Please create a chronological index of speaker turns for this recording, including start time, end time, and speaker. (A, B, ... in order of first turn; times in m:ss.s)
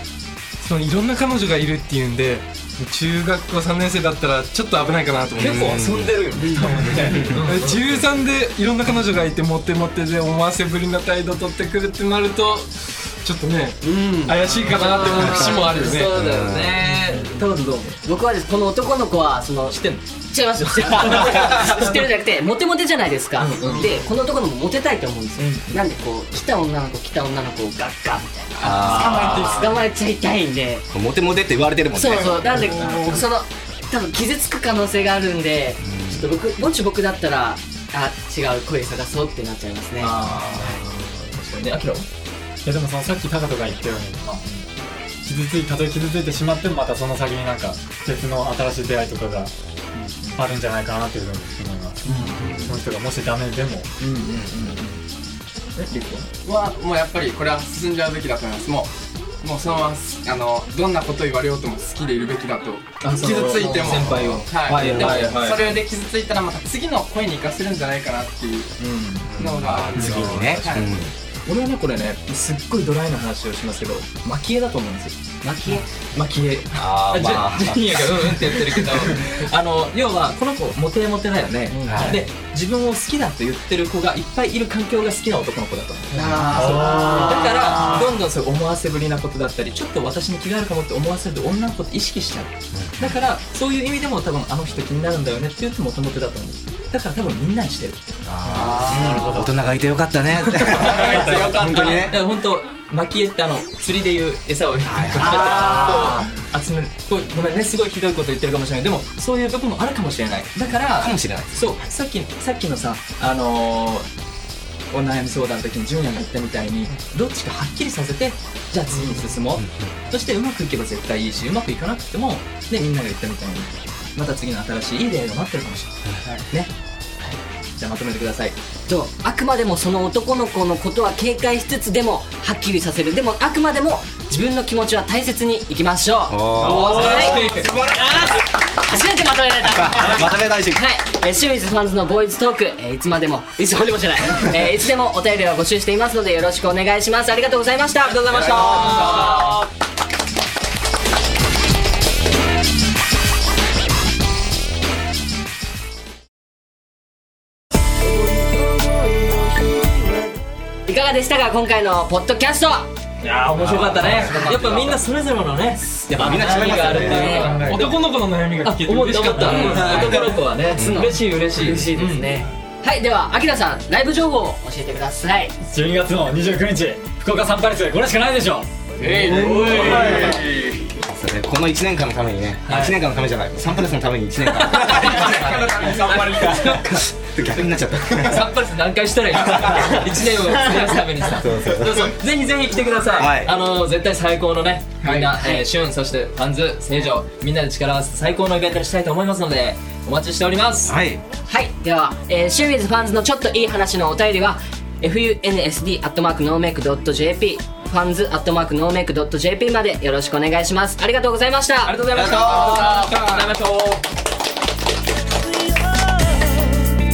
0:00.6-0:05.8 A
0:05.4-0:06.2 B
0:05.4-0:07.8 C
0:06.4-0:07.2 D
0:06.6-0:16.2 A
0:06.9-0:07.4 B
0:13.8-0:15.8 D
0:14.7-0:18.0 C
0:16.0-0:16.9 B
0:17.1-0:17.4 E
0:18.0-0:19.8 D
0:19.7-0:20.0 C
0:20.3-0:30.9 D
0:20.6-0:22.0 C
0:23.4-0:24.0 C
0:25.4-0:25.8 C
0:28.6-0:29.5 B
0:28.6-0:29.7 C
0:28.9-0:29.7 F
0:30.9-0:32.7 B
0:31.9-0:40.8 D
0:32.1-0:33.3 C
0:32.9-0:33.2 F
0:35.8-0:36.4 B
0:40.0-0:42.1 C
0:42.6-0:44.6 E
0:45.2-0:49.5 E
0:49.9-0:50.4 C
0:50.4-0:53.9 E
0:52.0-0:52.8 C
0:54.0-0:55.0 C
0:54.4-0:54.6 B
0:55.8-0:56.3 C
0:56.4-1:08.8 F
1:03.0-1:05.8 C
1:03.9-1:05.2 B
1:08.8-1:09.3 C
1:09.3-1:11.1 B
1:09.4-1:10.9 F
1:09.9-1:10.5 E
1:10.3-1:10.9 C
1:11.4-1:38.0 C
1:15.4-1:16.1 D
1:16.7-1:19.0 B
1:21.8-1:22.2 B
1:26.1-1:28.2 D
1:26.5-1:27.9 E
1:32.7-1:33.2 B
1:38.2-1:42.2 B
1:38.5-1:39.5 E
1:38.6-1:39.0 C
1:38.6-1:39.4 D
1:38.8-1:39.2 F
1:40.4-1:54.1 C
1:40.7-1:42.1 F
1:44.8-1:46.2 B
1:45.2-1:46.2 D
1:51.0-1:51.6 B
1:54.9-2:06.0 C
1:59.6-2:00.0 B
2:07.8-2:08.6 C
2:08.9-2:29.4 D
2:16.3-2:18.4 B
2:16.6-2:17.7 C
2:19.7-2:20.8 B
2:28.0-2:29.7 C
2:28.3-2:29.3 B
2:40.9-2:42.9 D
2:43.2-2:52.3 C
2:43.6-2:44.4 B
2:44.0-2:45.0 D
2:44.3-2:44.6 E
2:46.1-2:47.5 B
2:46.6-2:47.6 D
2:46.7-2:47.9 E
2:47.3-2:50.3 A
2:49.4-2:55.6 D
2:49.6-2:50.1 E
2:50.7-2:51.1 B
2:55.6-2:58.7 E
2:59.0-3:00.9 F
2:59.0-3:00.1 A
2:59.0-3:00.3 C
2:59.5-3:00.0 E
2:59.7-3:00.1 D
2:59.9-3:00.3 B
3:01.0-3:05.4 B
3:02.7-3:03.0 C
3:04.4-3:07.1 C
3:04.8-3:06.8 F
3:06.6-3:08.6 B
3:08.2-3:21.0 C
3:09.6-3:10.0 B
3:11.3-3:12.1 B
3:13.2-3:13.5 B
3:15.0-3:15.3 F
3:15.4-3:15.6 D
3:20.9-3:21.2 B
3:21.5-3:33.6 D
3:31.8-3:34.0 C
3:32.1-3:32.9 B
3:32.3-3:33.5 A